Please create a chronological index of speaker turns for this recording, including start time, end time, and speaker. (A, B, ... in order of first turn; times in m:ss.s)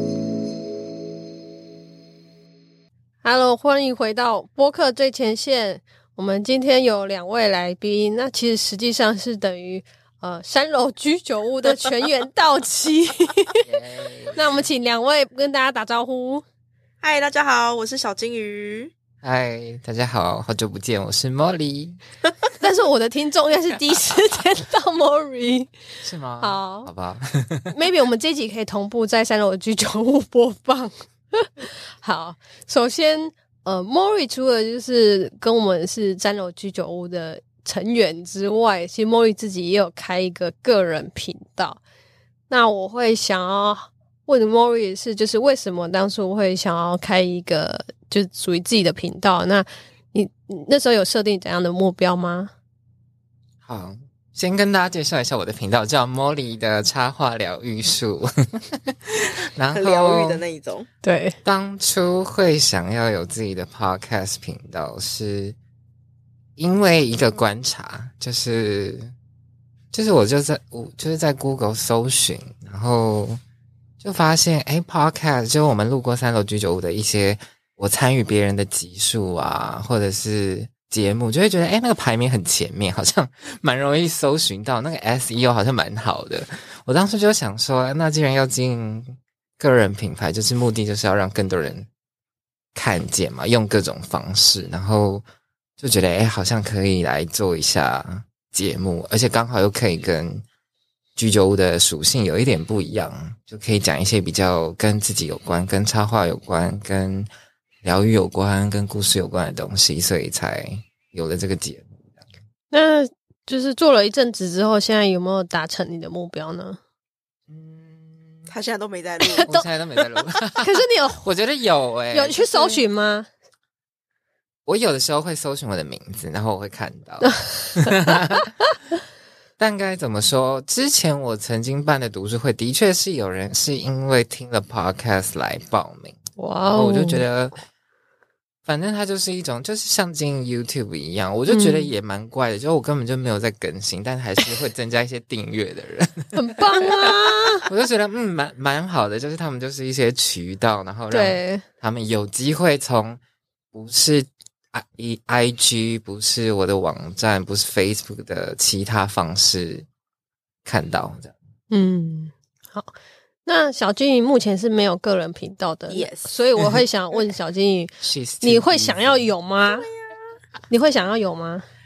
0:03.2-0:13.5 A
0:13.6-0:14.5 B
0:14.3-0:16.4 A
0:17.0-0:18.9 C
0:19.2-0:22.0 B
0:22.6-0:25.7 A
0:26.0-0:27.7 B
0:26.4-0:26.9 A
0:27.7-0:41.8 A
0:42.5-0:52.5 A
0:53.6-1:00.4 B
0:59.7-1:00.9 C
1:01.0-1:01.4 A
1:01.4-1:05.6 B
1:06.6-1:09.1 B
1:09.9-1:13.4 B
1:14.0-1:31.9 B
1:32.7-1:35.2 B
1:35.8-1:40.4 B
1:41.2-1:47.3 B
1:47.8-1:51.9 B
1:52.7-1:56.8 A
1:57.5-1:58.5 B
1:58.5-1:59.5 C
1:59.2-2:01.2 A
1:59.4-2:02.8 B
2:02.1-2:03.3 A
2:04.6-2:08.5 B
2:07.2-2:08.1 A
2:09.6-2:16.2 B
2:16.4-2:17.2 A
2:16.7-2:17.5 B
2:18.6-2:27.1 B
2:21.5-2:21.9 A
2:26.3-2:27.6 A
2:27.7-2:33.2 B
2:31.1-2:31.6 A
2:33.7-2:39.9 B
2:40.6-2:41.4 B
2:41.7-2:42.9 A
2:43.4-2:49.9 A
2:45.9-2:46.3 C
2:48.0-2:49.3 B
2:49.6-2:50.4 C
2:50.7-2:51.6 A